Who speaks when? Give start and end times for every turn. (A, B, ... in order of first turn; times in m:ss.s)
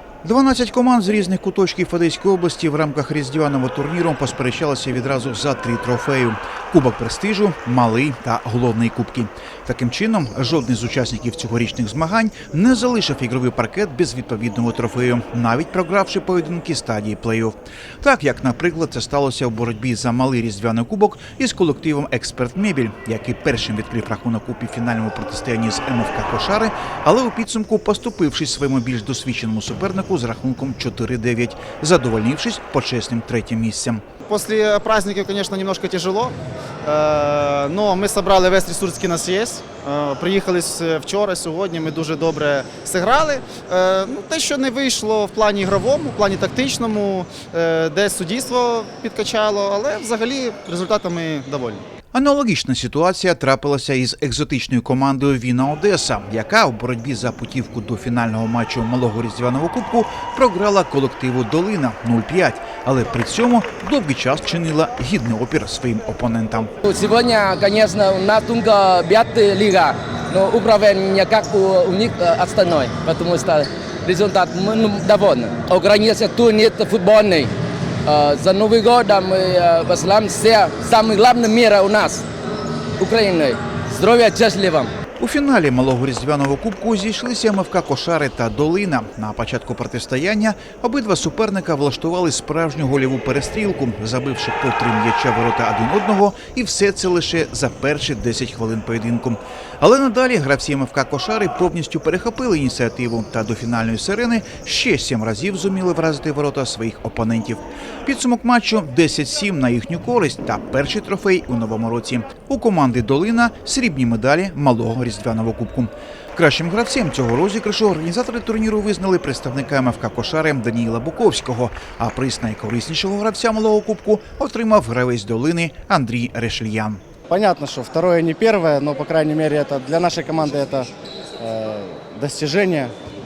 0:00.2-0:34.0 A
0:34.3-0:36.3 B
0:36.8-0:51.8 B
0:52.1-1:06.7 A
1:06.8-1:17.5 C
1:18.0-1:22.2 C
1:23.0-1:24.9 C
1:25.2-2:07.0 A
2:07.3-2:10.9 D
2:11.4-2:12.9 D